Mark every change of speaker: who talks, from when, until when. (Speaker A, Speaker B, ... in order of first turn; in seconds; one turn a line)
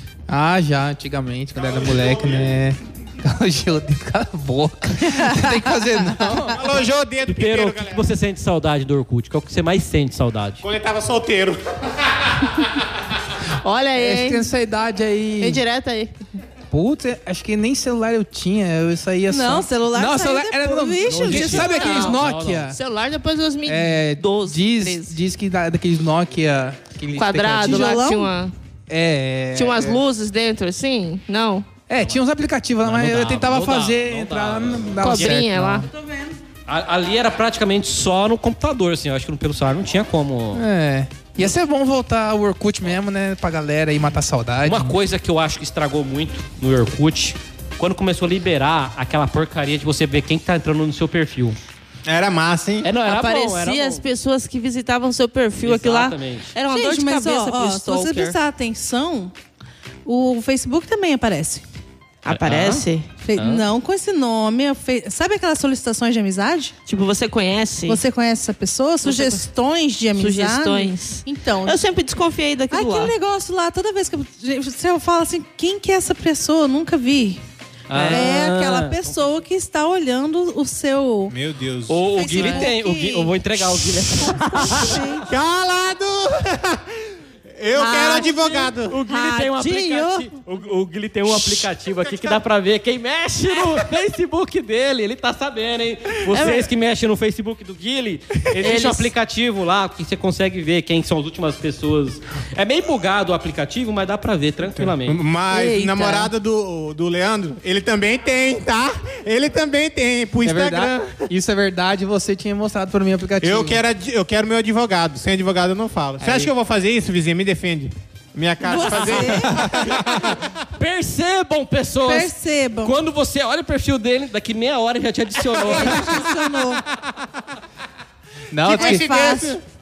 Speaker A: 0.3-6.6
Speaker B: 1.8-2.4
Speaker B: 6.5-8.1
Speaker C: 7.3-10.6
Speaker B: 10.6-12.9
Speaker D: 13.5-14.5
Speaker A: 14.0-15.6
Speaker D: 15.4-16.1
Speaker A: 16.7-22.8
Speaker E: 19.3-21.7
Speaker C: 21.1-22.7
Speaker D: 21.4-25.2
Speaker A: 23.6-28.0
Speaker D: 27.1-28.5
Speaker E: 27.6-28.3
Speaker A: 28.9-30.0
Speaker D: 29.5-31.7
Speaker A: 31.9-35.9
Speaker C: 32.8-35.4
Speaker D: 35.0-35.9
Speaker E: 35.9-36.4
Speaker C: 36.7-40.6
Speaker A: 40.5-44.9
Speaker C: 44.6-51.6
Speaker B: 52.1-52.9
Speaker C: 52.8-54.0
Speaker D: 53.0-58.4
Speaker C: 55.6-56.5
Speaker E: 56.7-59.3
Speaker E: 60.1-61.6
Speaker D: 62.2-63.1
Speaker C: 62.3-63.7
Speaker E: 63.2-66.7
Speaker D: 66.9-68.0
Speaker E: 67.9-71.8
Speaker D: 69.0-69.4
Speaker D: 70.2-73.1
Speaker E: 72.7-77.4
Speaker C: 77.9-79.1
Speaker D: 77.9-78.2
Speaker E: 78.1-81.3
Speaker B: 81.3-82.7
Speaker C: 81.9-85.0
Speaker E: 82.1-83.3
Speaker E: 84.1-85.3
Speaker B: 84.9-89.0
Speaker E: 87.8-90.3
Speaker C: 88.9-105.2
Speaker B: 91.3-92.3
Speaker D: 98.6-99.1
Speaker B: 104.8-111.3
Speaker D: 105.5-106.3
Speaker A: 110.4-113.8
Speaker B: 113.4-120.4
Speaker A: 116.2-116.5
Speaker E: 118.6-119.8
Speaker C: 120.7-126.3
Speaker E: 122.0-123.0
Speaker E: 125.6-126.8
Speaker A: 128.5-129.1
Speaker B: 128.6-129.6
Speaker E: 128.7-129.6